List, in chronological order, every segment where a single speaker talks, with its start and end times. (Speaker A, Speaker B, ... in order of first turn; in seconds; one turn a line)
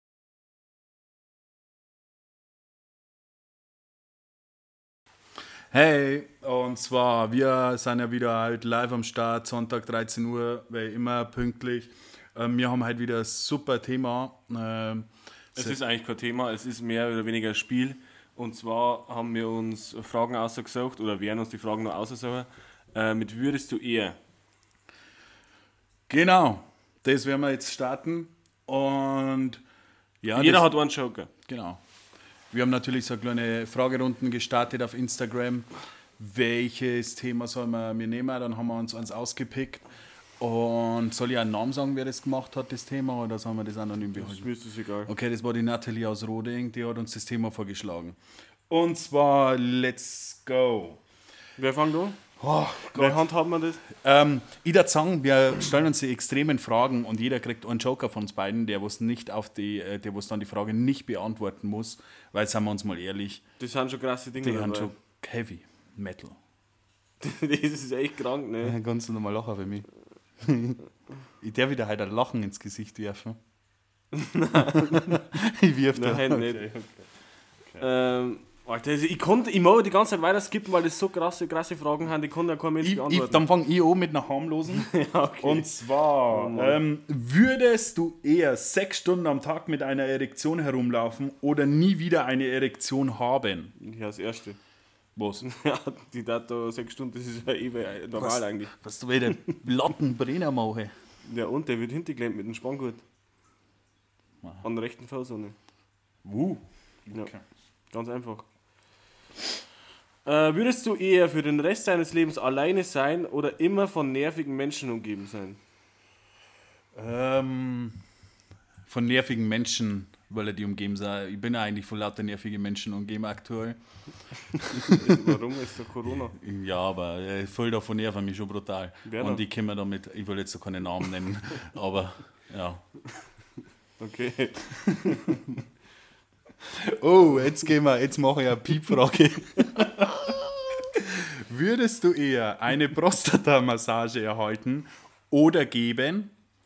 Speaker A: 5.7-15.8
Speaker B: 15.6-24.2
Speaker A: 26.1-29.6
Speaker A: 30.2-30.7
Speaker B: 30.3-31.3
Speaker A: 31.5-31.8
Speaker A: 32.5-35.7
Speaker A: 36.2-39.8
Speaker A: 40.4-44.5
Speaker B: 44.1-45.1
Speaker A: 45.0-48.2
Speaker A: 48.7-51.0
Speaker B: 51.6-52.2
Speaker A: 52.4-53.3
Speaker B: 52.9-53.8
Speaker A: 53.8-63.4
Speaker B: 63.6-64.9
Speaker A: 64.4-66.4
Speaker B: 67.2-68.8
Speaker A: 68.6-69.9
Speaker A: 70.4-70.8
Speaker A: 71.4-73.4
Speaker B: 74.1-75.2
Speaker A: 74.7-76.7
Speaker B: 75.9-76.9
Speaker B: 77.8-83.4
Speaker A: 82.8-93.7
Speaker B: 84.7-85.7
Speaker B: 86.3-86.8
Speaker B: 93.8-94.6
Speaker A: 95.1-95.5
Speaker B: 95.4-98.7
Speaker A: 98.2-100.9
Speaker B: 101.2-103.0
Speaker B: 104.6-105.5
Speaker A: 106.2-107.4
Speaker B: 107.9-108.5
Speaker B: 110.2-115.6
Speaker A: 116.9-118.0
Speaker A: 118.9-123.8
Speaker A: 124.5-125.2
Speaker B: 124.7-126.3
Speaker A: 126.3-132.8
Speaker B: 129.0-129.4
Speaker B: 134.0-135.6
Speaker A: 136.6-146.3